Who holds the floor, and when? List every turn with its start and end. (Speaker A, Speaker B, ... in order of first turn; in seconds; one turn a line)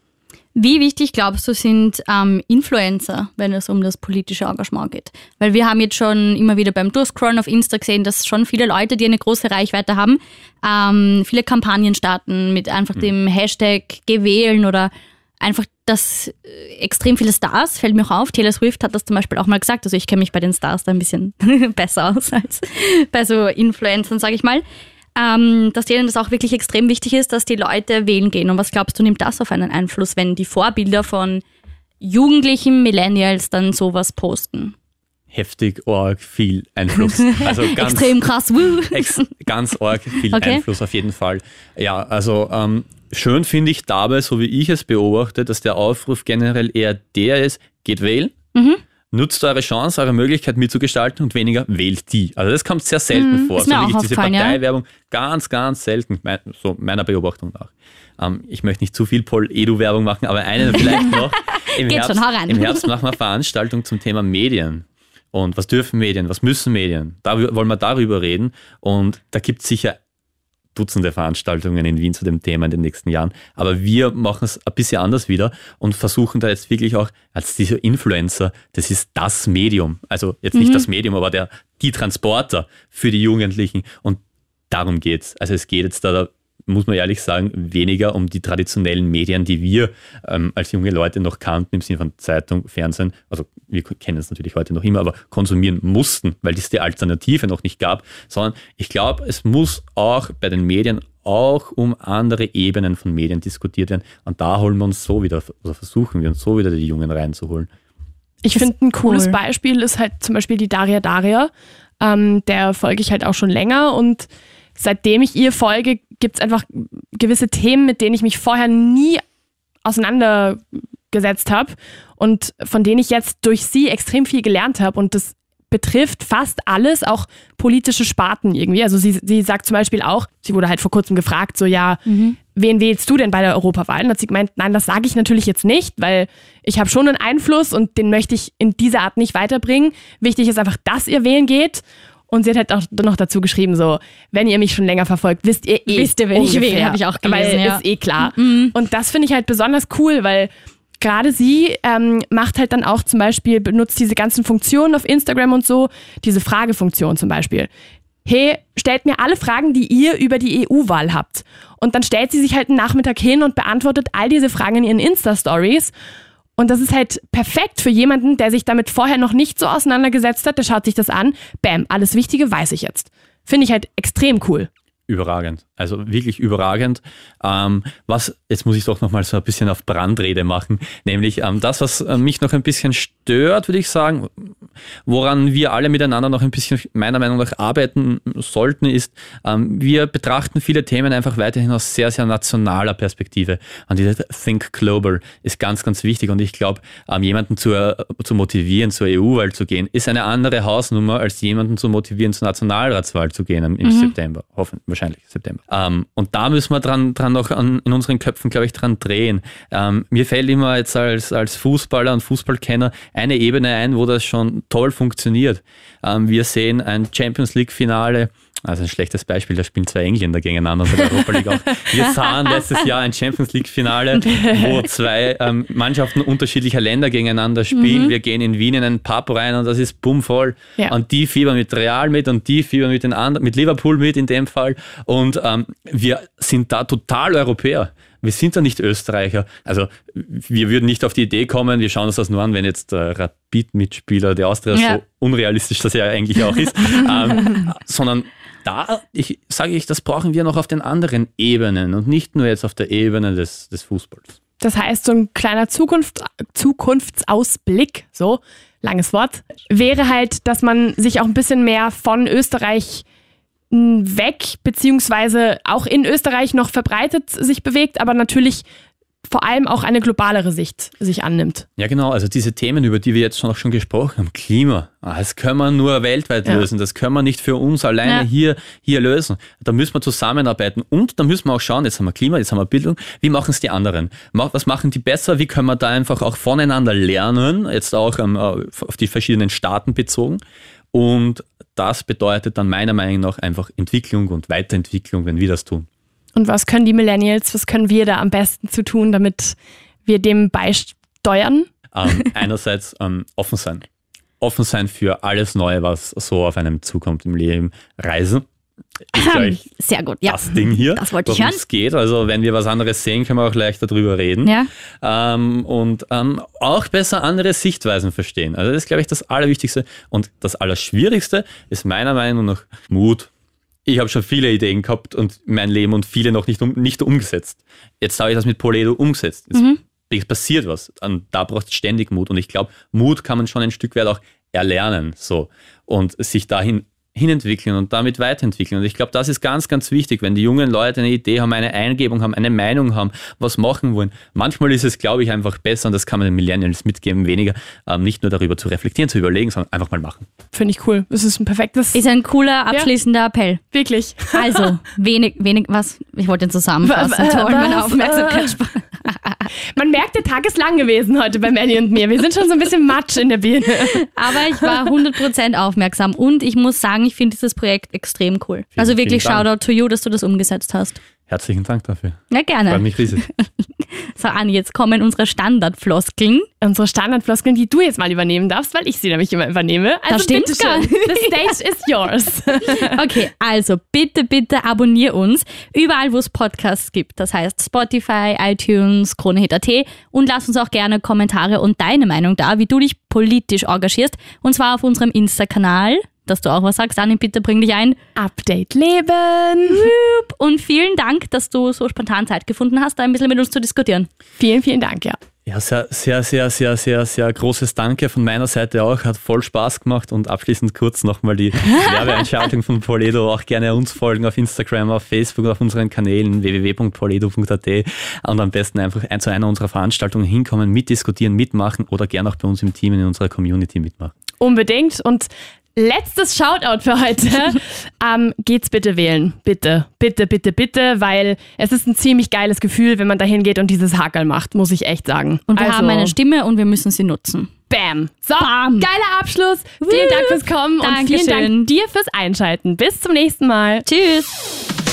Speaker A: 0.6-24.6
Speaker A: 25.1-31.4
Speaker A: 32.0-34.7
Speaker B: 35.3-38.1
Speaker A: 37.2-39.2
Speaker B: 38.9-48.4
Speaker A: 40.3-40.6
Speaker A: 48.5-48.8
Speaker B: 49.1-70.0
Speaker A: 53.5-54.6
Speaker A: 60.8-61.2
Speaker A: 61.7-62.9
Speaker B: 70.7-107.7
Speaker A: 80.5-80.8
Speaker C: 108.4-119.2
Speaker A: 108.5-109.4
Speaker C: 119.8-157.7
Speaker A: 132.1-132.4
Speaker A: 145.9-148.7
Speaker C: 158.2-165.9
Speaker C: 166.6-174.7
Speaker B: 175.1-184.5
Speaker B: 185.1-254.3
Speaker A: 203.8-204.1
Speaker C: 224.3-224.8
Speaker A: 227.7-228.1
Speaker A: 244.7-245.0
Speaker C: 254.6-263.0
Speaker C: 263.7-268.6
Speaker C: 269.2-271.6
Speaker B: 271.8-290.4
Speaker B: 290.9-295.9
Speaker C: 296.4-301.7
Speaker B: 301.9-303.8
Speaker B: 304.4-308.4
Speaker B: 309.1-309.6
Speaker A: 309.1-311.6
Speaker B: 310.2-323.3
Speaker A: 314.4-314.7
Speaker B: 323.9-350.3
Speaker A: 329.5-329.8
Speaker C: 350.5-352.0
Speaker A: 351.9-353.6
Speaker C: 353.7-354.7
Speaker A: 354.3-359.5
Speaker C: 356.8-358.6
Speaker C: 359.7-364.9
Speaker A: 363.8-371.0
Speaker B: 368.8-369.4
Speaker B: 371.3-373.2
Speaker A: 372.3-373.5
Speaker A: 374.0-376.5
Speaker C: 376.6-383.0
Speaker A: 380.1-381.5
Speaker A: 382.8-398.0
Speaker C: 398.2-399.9
Speaker A: 399.7-404.1
Speaker C: 404.4-405.2
Speaker B: 405.4-424.1
Speaker C: 424.4-436.1
Speaker A: 435.5-437.5
Speaker C: 437.7-443.9
Speaker A: 438.4-438.9
Speaker A: 439.9-441.7
Speaker A: 443.9-444.4